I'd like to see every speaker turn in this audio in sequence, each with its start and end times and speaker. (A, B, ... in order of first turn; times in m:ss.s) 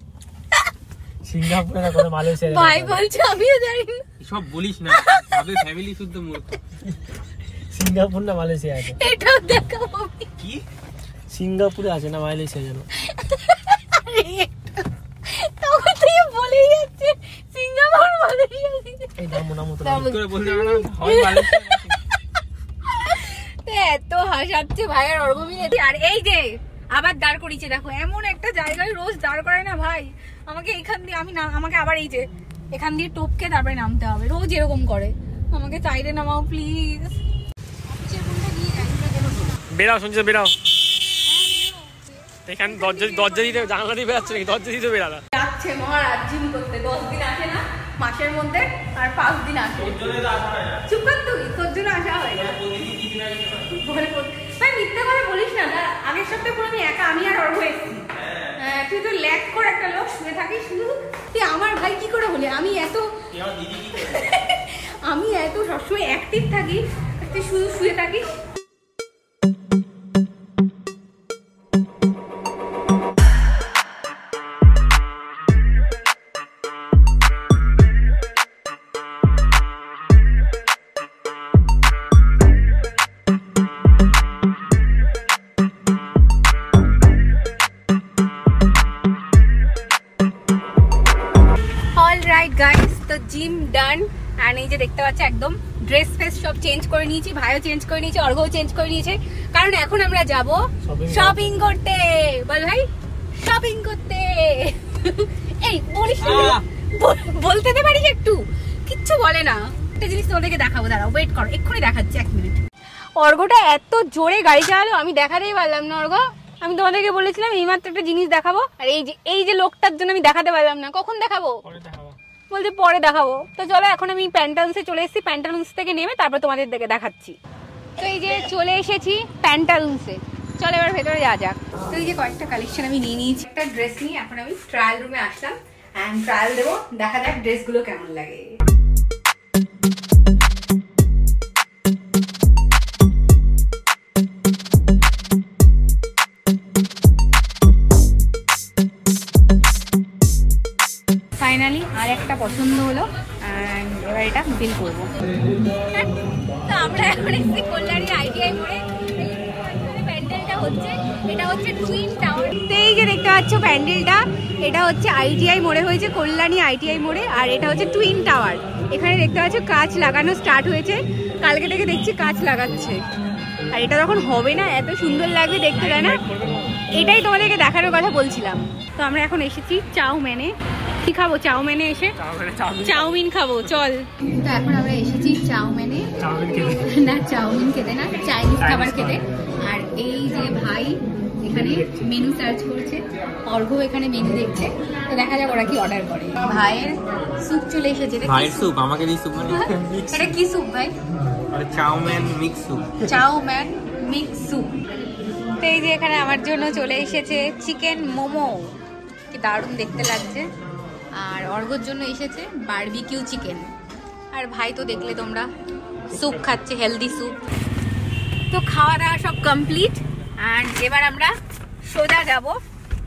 0:01.2-0:03.0 A
0:02.4-0:04.0 B
0:04.2-0:06.6 C
0:04.9-0:05.5 B
0:07.7-0:09.0 A
0:09.0-0:10.3 B
0:11.3-0:12.8 A
0:13.1-0:14.5 B
0:15.3-0:19.1 B
0:19.2-0:19.9 A
0:19.8-0:21.5 B
0:19.9-0:22.0 C
0:22.8-0:37.2 B
0:37.9-0:39.6 B
0:39.7-0:40.5 A
0:41.2-0:42.1 B
0:42.4-0:45.2 A
0:42.6-0:43.8 B
0:45.3-0:50.2 B
0:50.0-0:50.8 C
0:50.8-0:52.6 B
0:52.5-0:53.6 C
0:53.6-0:58.0 B
0:58.6-1:03.1 B
1:03.4-1:03.8 C
1:03.9-1:08.3 B
1:32.0-1:42.8 B
1:40.8-1:41.4 A
1:43.4-1:52.6 B
1:46.2-1:46.6 C
1:53.2-2:01.6 B
2:01.6-2:02.2 A
2:02.5-2:07.4 B
2:08.0-2:18.6 B
2:31.4-2:35.1 B
2:36.6-2:53.0 B
2:53.7-2:56.2 B
2:55.8-2:56.7 A
2:56.9-3:02.1 B
3:02.2-3:03.1 A
3:02.8-3:18.7 B
3:06.2-3:06.7 A
3:08.6-3:09.2 A
3:18.2-3:20.3 C
3:19.4-3:20.9 B
3:21.5-3:22.9 C
3:23.0-3:24.8 B
3:25.6-3:28.7 B
3:29.3-3:30.4 B
3:31.1-3:33.7 B
3:34.3-3:35.5 B
3:36.1-3:37.4 B
3:38.5-3:41.3 B
3:41.8-3:42.6 B